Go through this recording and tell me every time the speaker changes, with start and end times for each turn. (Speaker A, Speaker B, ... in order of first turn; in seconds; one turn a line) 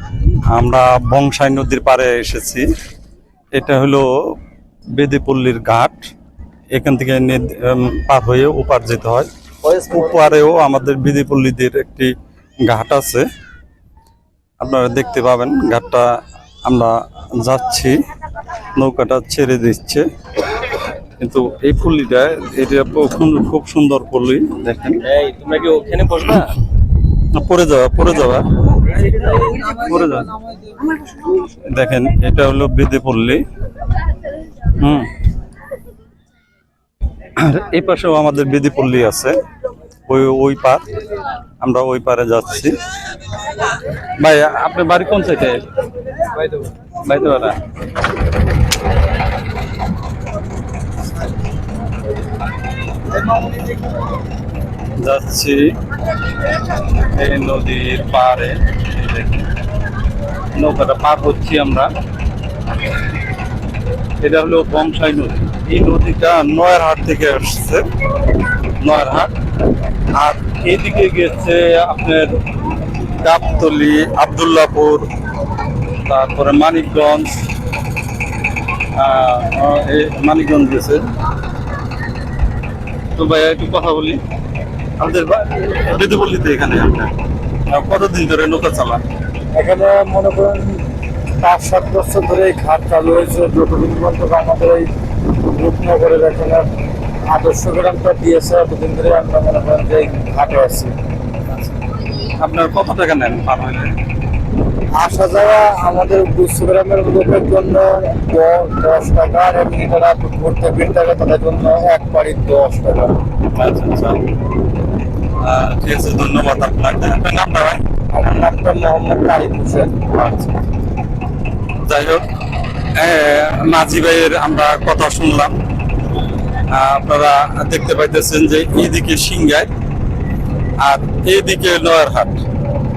Speaker A: 0.5-2.7
Speaker A: 3.5-4.1
Speaker A: 5.0-6.0
Speaker A: 6.7-12.1
Speaker A: 12.6-13.2
Speaker A: 14.6-16.1
Speaker A: 16.6-18.0
Speaker A: 18.8-20.1
Speaker A: 21.2-25.1
Speaker B: 25.0-26.5
Speaker A: 27.3-28.9
Speaker B: 29.2-29.6
Speaker A: 29.6-30.3
Speaker A: 31.4-33.4
Speaker A: 34.7-35.1
Speaker A: 37.4-39.4
Speaker A: 40.1-40.8
Speaker A: 41.6-42.7
Speaker A: 44.2-45.6
Speaker A: 47.0-47.6
Speaker A: 54.9-55.7
Speaker A: 56.9-59.5
Speaker A: 60.5-61.9
Speaker A: 64.2-67.8
Speaker A: 68.8-69.3
Speaker A: 70.1-72.3
Speaker A: 73.2-75.0
Speaker A: 76.0-77.3
Speaker A: 78.9-81.0
Speaker A: 83.2-84.2
Speaker A: 85.0-87.1
Speaker A: 87.7-89.0
Speaker C: 89.5-90.8
Speaker C: 91.4-96.7
Speaker C: 97.3-100.9
Speaker A: 102.3-104.0
Speaker C: 104.9-113.2
Speaker A: 113.5-114.2
Speaker A: 115.3-117.8
Speaker C: 118.1-120.0
Speaker A: 120.1-120.6
Speaker A: 121.8-122.2
Speaker A: 122.9-125.5
Speaker A: 126.7-129.7
Speaker A: 130.8-132.4